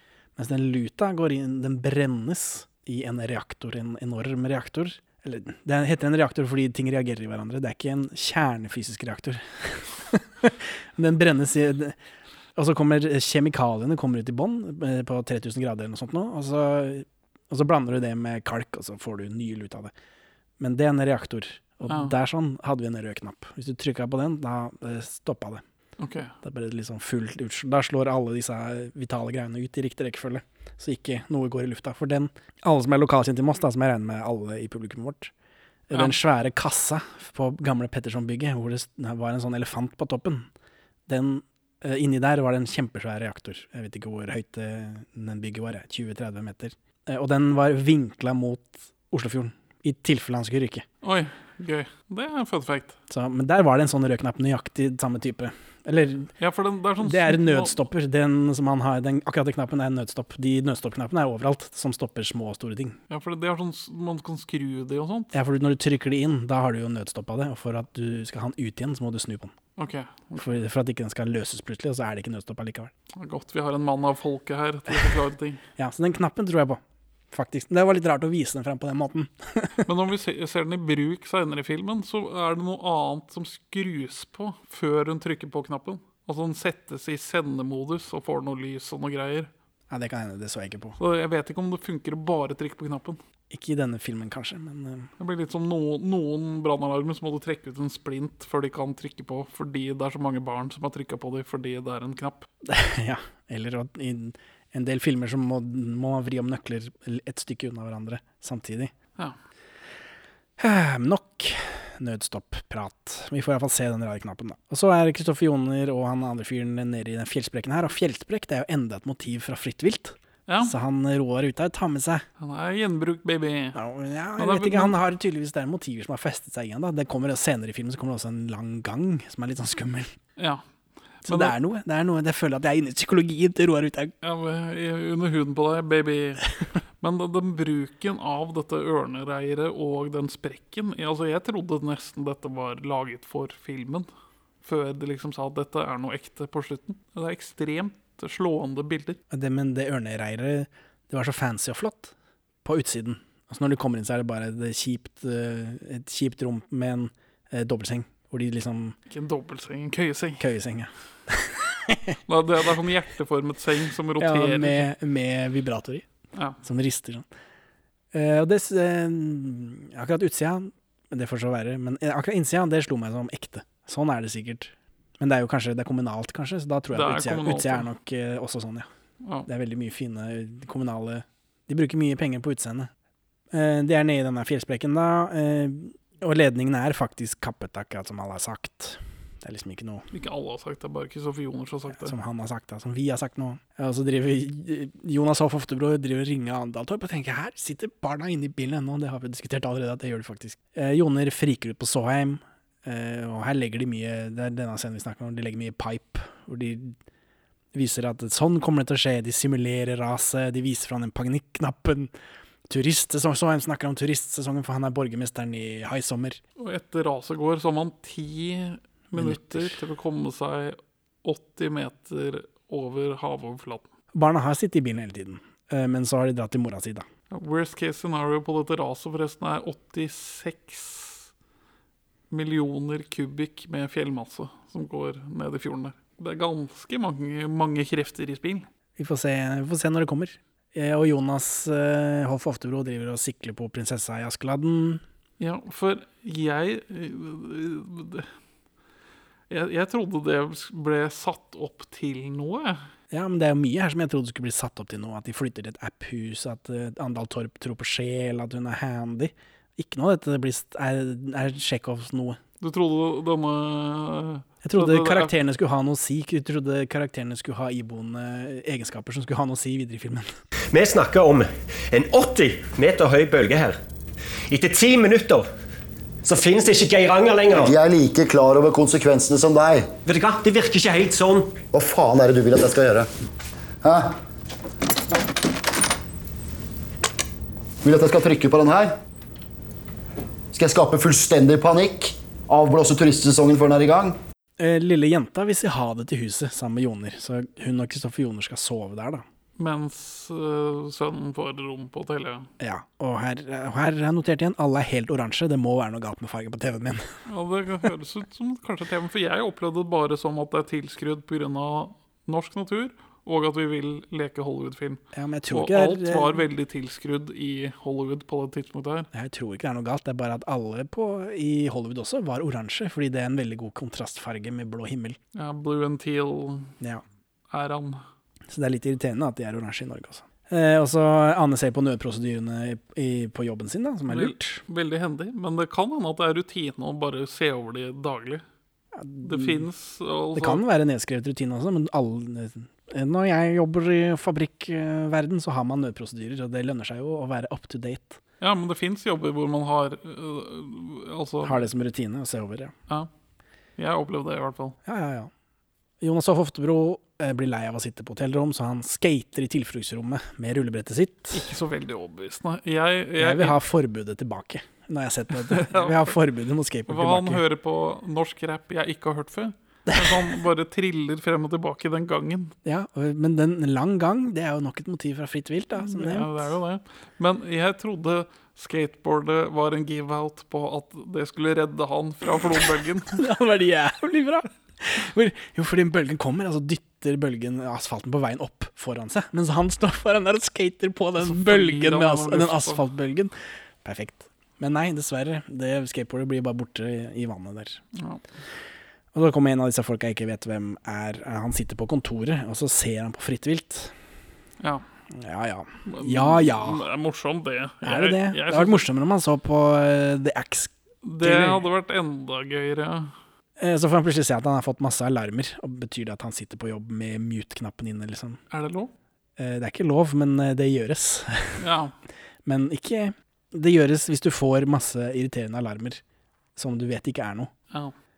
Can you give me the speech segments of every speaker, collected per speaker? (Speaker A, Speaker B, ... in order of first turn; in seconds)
Speaker A: 0.4-12.0, 12.6-19.9, 20.6-25.6, 26.4-35.3, 35.9-40.5, 41.1-50.9, 53.1-56.3, 57.0-63.0, 65.3-69.5, 70.4-72.9, 75.8-76.8, 77.3-79.9, 89.9-91.0, 93.5-95.1, 102.7-108.9, 110.6-122.2, 123.8-130.1, 131.3-134.1, 149.3-152.1, 152.7-159.0, 160.4-162.2, 164.2-166.1, 166.6-167.2, 168.1-178.9, 179.5-182.9, 183.5-190.1, 191.9-207.0, 207.7-212.1, 212.7-216.4, 219.1-219.8, 224.1-227.1, 239.0-245.0, 253.1-262.4, 264.6-270.3, 294.6-299.2, 302.6-307.1, 315.1-316.4, 319.1-325.2, 328.5-334.6, 339.0-339.6, 340.4-348.2, 351.4-352.7, 354.9-355.3, 356.0-361.5, 363.2-367.4, 369.9-370.1, 372.6-376.5, 383.1-393.3, 393.8-397.8, 399.1-403.9, 405.1-406.8, 407.8-411.6, 413.6-418.4, 419.4-421.6, 422.4-426.0, 426.6-427.5
Speaker B: 26.0-26.3, 51.0-53.0, 56.4-57.8, 63.1-65.3, 69.8-70.5, 73.2-75.6, 79.8-89.5, 91.0-93.2, 95.2-102.5, 120.5-120.7, 122.4-123.8, 124.4-125.0, 130.4-130.6, 131.2-131.6, 134.2-136.5, 137.0-144.1, 144.6-149.2, 159.1-160.4, 162.3-164.9, 176.9-177.9, 179.2-179.5, 190.1-192.1, 216.6-223.9, 227.3-231.3, 232.3-238.7, 245.4-248.3, 249.5-252.8, 262.6-265.3, 299.6-302.5, 307.3-319.1, 325.3-326.7, 327.5-328.0, 334.1-338.4, 339.2-340.6, 348.4-351.7, 353.8-354.8, 361.3-363.6, 365.4-366.1, 366.9-372.6, 375.8-383.2, 391.2-392.8, 398.0-398.2, 405.9-408.9, 411.1-413.1, 418.5-418.9, 421.6-421.9
Speaker C: 270.7-273.8, 274.5-275.5, 276.2-277.8, 280.1-281.6
Speaker D: 277.6-279.9, 281.7-283.1, 287.8-288.9, 290.6-294.2